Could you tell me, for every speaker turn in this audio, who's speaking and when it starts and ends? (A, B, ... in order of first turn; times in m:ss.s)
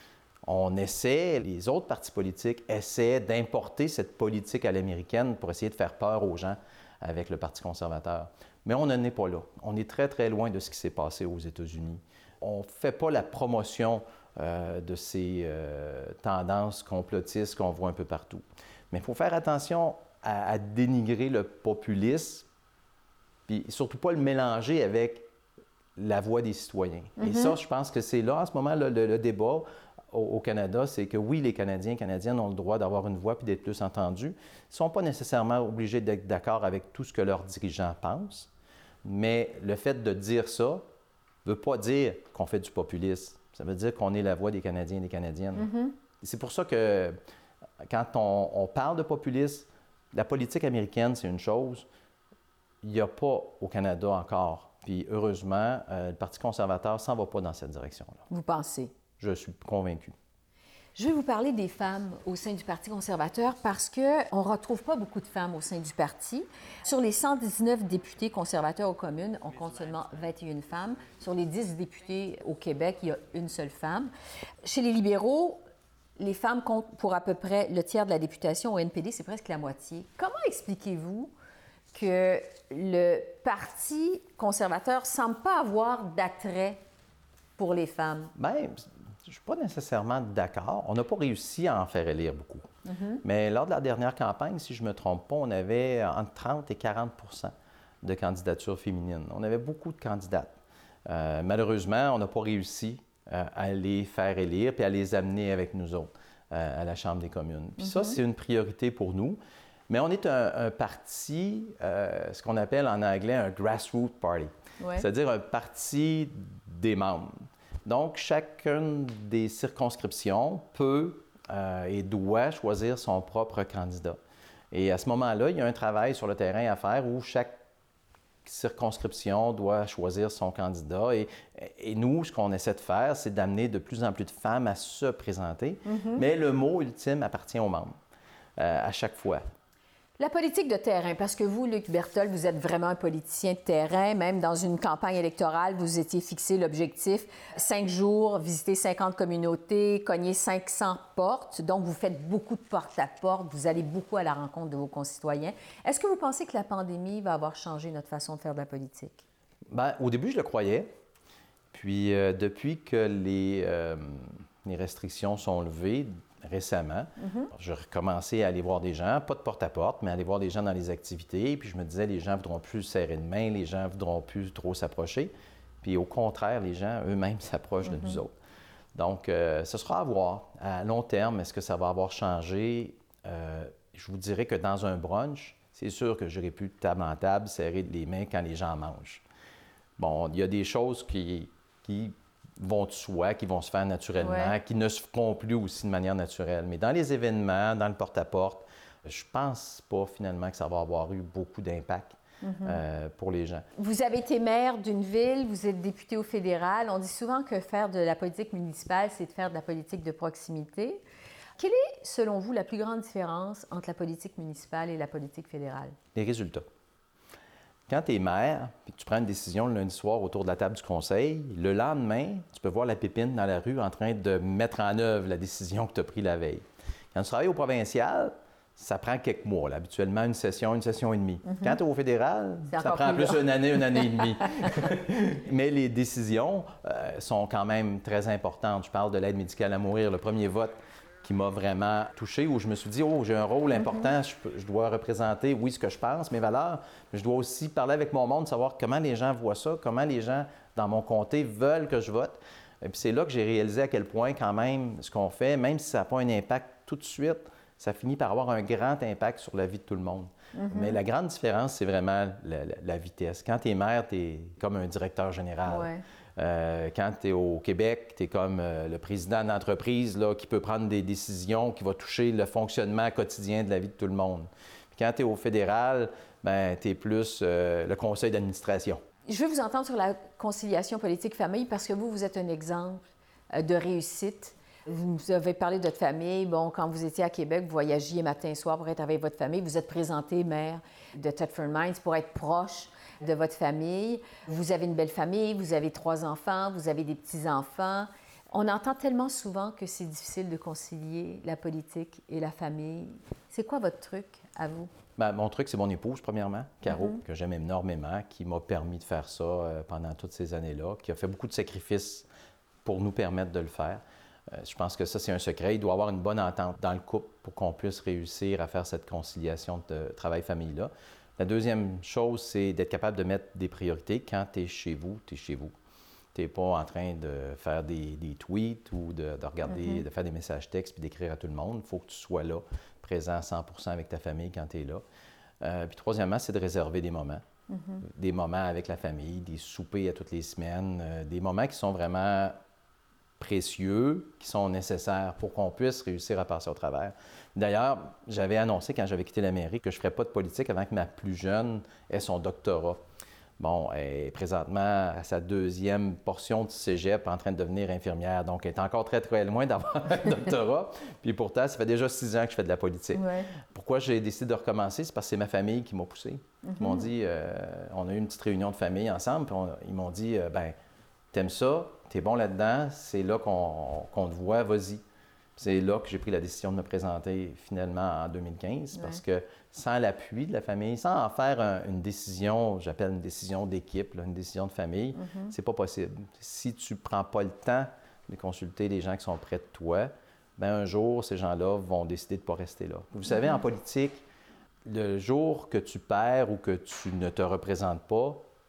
0:00.4-0:22.5 A
0:23.5-0:25.3 A
0:26.0-0:38.5 A
0:27.2-0:27.6 B
0:39.0-0:40.8 A
0:41.4-0:45.7 A
0:45.6-0:45.9 B
0:46.2-0:47.2 A
0:47.8-0:51.9 A
0:52.8-0:58.2 A
0:58.3-0:58.9 B
0:59.2-1:00.2 A
1:01.0-1:14.1 B
1:14.6-1:15.6 B
1:16.2-1:21.3 B
1:21.9-1:26.8 B
1:27.6-1:28.3 B
1:28.4-1:32.6 A
1:32.8-1:33.2 B
1:33.2-1:40.5 A
1:41.0-2:04.2 A
1:47.8-1:48.2 B
1:54.8-1:55.1 B
2:04.7-2:07.6 A
2:08.4-2:17.9 A
2:15.8-2:16.2 B
2:18.6-2:19.4 A
2:20.2-2:39.2 B
2:39.7-2:40.9 A
2:41.7-2:58.3 A
2:47.2-2:47.5 B
2:57.9-2:58.2 B
2:58.9-3:09.2 A
3:10.0-3:23.6 A
3:14.2-3:14.5 B
3:22.4-3:22.8 B
3:23.8-3:31.0 B
3:31.6-3:36.0 B
3:36.1-3:36.6 A
3:37.9-4:39.0 A
3:51.4-3:51.8 B
3:52.7-3:53.4 B
3:53.9-3:54.8 B
4:03.8-4:04.1 B
4:20.5-4:21.0 B
4:25.6-4:26.0 B
4:39.3-5:04.9 B
5:05.2-5:12.3 A
5:06.9-5:07.2 B
5:12.8-5:25.7 A
5:26.3-5:35.0 A
5:29.7-5:30.0 B
5:35.6-5:37.4 A
5:37.7-5:38.0 B
5:38.0-5:42.5 A
5:43.4-5:53.0 A
5:53.6-6:10.7 A
6:03.1-6:03.5 B
6:06.6-6:07.1 B
6:11.3-6:15.0 A
6:15.6-6:34.2 A
6:18.9-6:19.2 B
6:25.2-6:25.5 B
6:33.3-6:33.6 B
6:34.8-6:38.4 A